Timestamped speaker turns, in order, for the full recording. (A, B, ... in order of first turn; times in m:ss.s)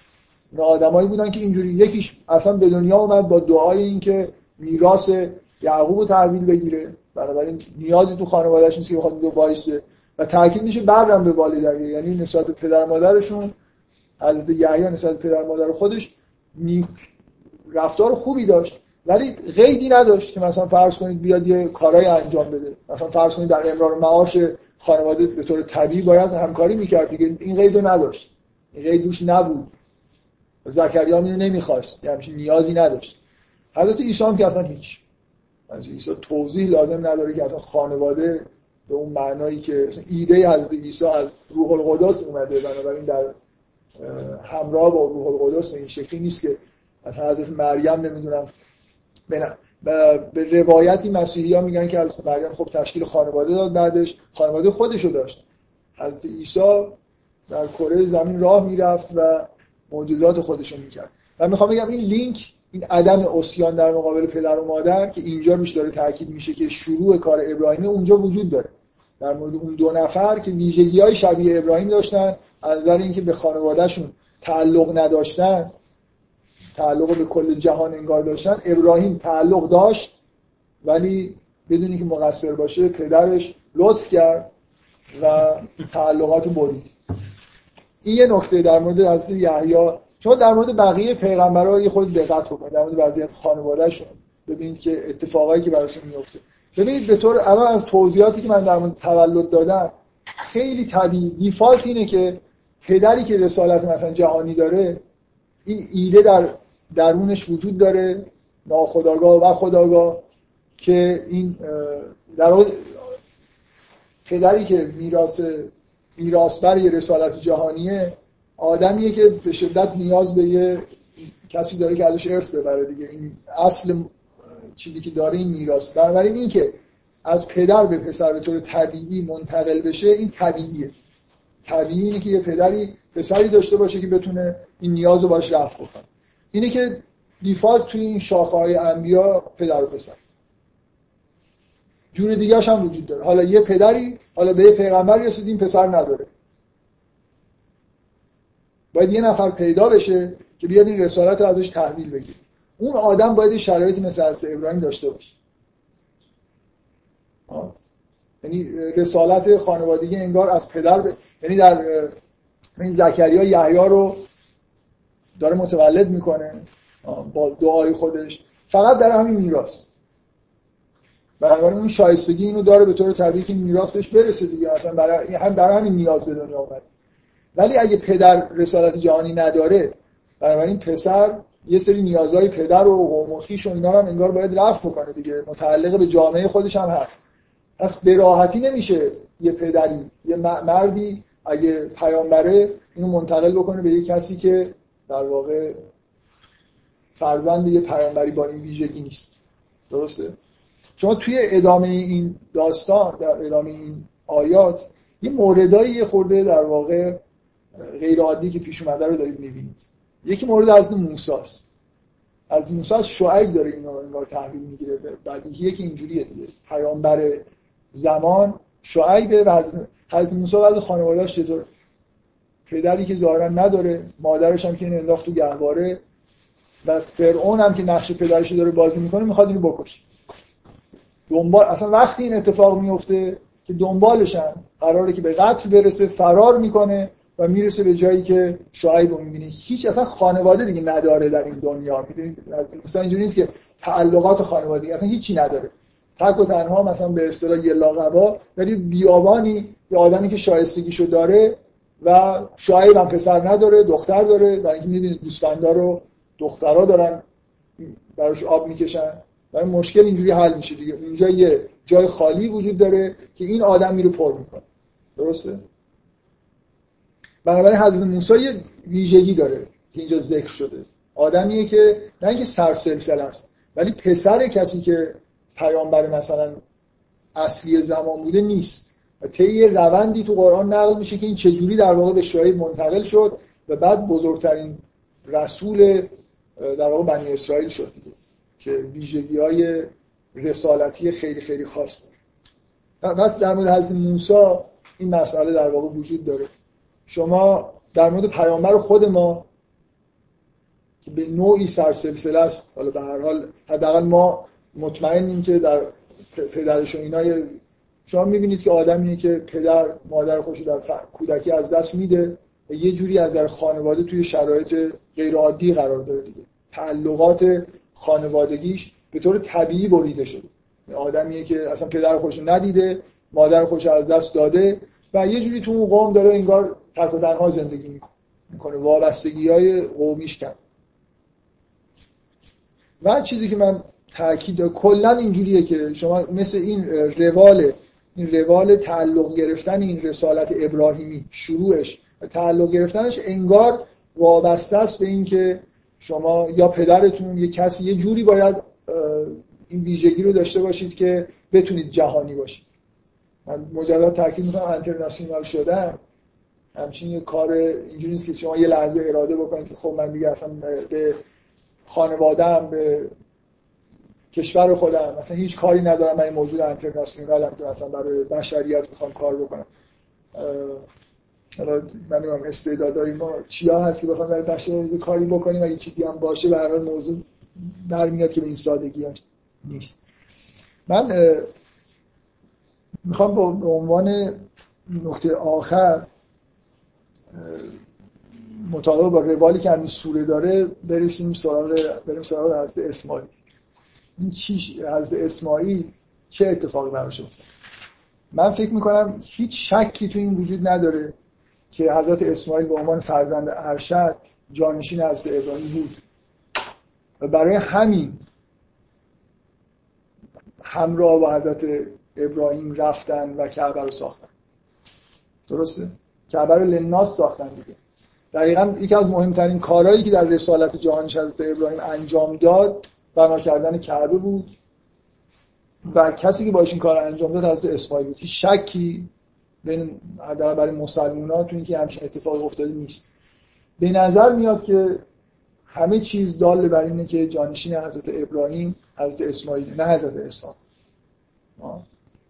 0:00.5-0:13.5 A
0:14.2-0:17.1 A
0:17.7-0:29.7 A
0:30.6-0:33.2 A
0:33.7-0:35.0 A
0:35.7-0:43.3 A
0:44.0-0:48.5 A
0:49.3-0:55.4 A
0:56.0-0:57.0 A
0:57.5-1:15.7 A
1:16.8-1:20.1 A
1:20.8-1:24.5 A
1:25.2-1:26.9 A
1:28.0-1:45.0 A
1:45.6-1:50.2 A
1:50.8-1:53.1 A
1:54.2-2:00.8 A
2:01.4-2:04.1 A
2:04.8-2:10.9 A
2:11.6-2:20.2 A
2:22.1-2:26.3 A
2:28.9-2:35.3 A
2:37.5-2:37.7 A
2:38.4-2:42.1 A
2:42.8-2:44.2 A
2:45.4-2:49.8 A
2:51.4-2:56.8 A
2:57.5-3:07.2 A
3:07.8-3:15.8 A
3:17.2-3:19.3 A
3:19.9-3:20.4 A
3:21.0-3:27.2 A
3:27.8-3:31.6 A
3:32.5-3:41.7 A
3:42.7-3:46.0 A
3:46.8-3:50.0 A
3:51.3-4:17.2 A
4:17.8-4:24.6 A
4:25.2-4:25.6 A
4:27.4-4:36.6 A
4:37.4-4:52.1 A
4:53.0-4:56.5 A
4:57.1-4:59.4 A
5:01.0-5:30.6 A
5:33.0-5:52.6 A
5:53.4-5:56.0 A
5:56.8-6:01.2 A
6:01.9-6:03.1 A
6:04.3-6:09.7 A
6:10.3-6:10.8 A
6:11.6-6:20.0 A
6:20.9-6:21.5 A
6:23.0-6:26.0 A
6:27.3-6:27.7 A
6:28.6-6:33.3 A
6:34.2-6:37.4 A
6:38.3-6:41.1 A
6:41.7-6:46.0 A
6:47.2-6:48.2 A
6:50.6-6:54.3 A
6:55.5-6:57.8 A
6:58.3-7:04.5 A
7:05.8-7:09.1 A
7:09.6-7:13.0 A
7:13.8-7:15.0 A
7:15.7-7:20.6 A
7:21.6-7:21.8 A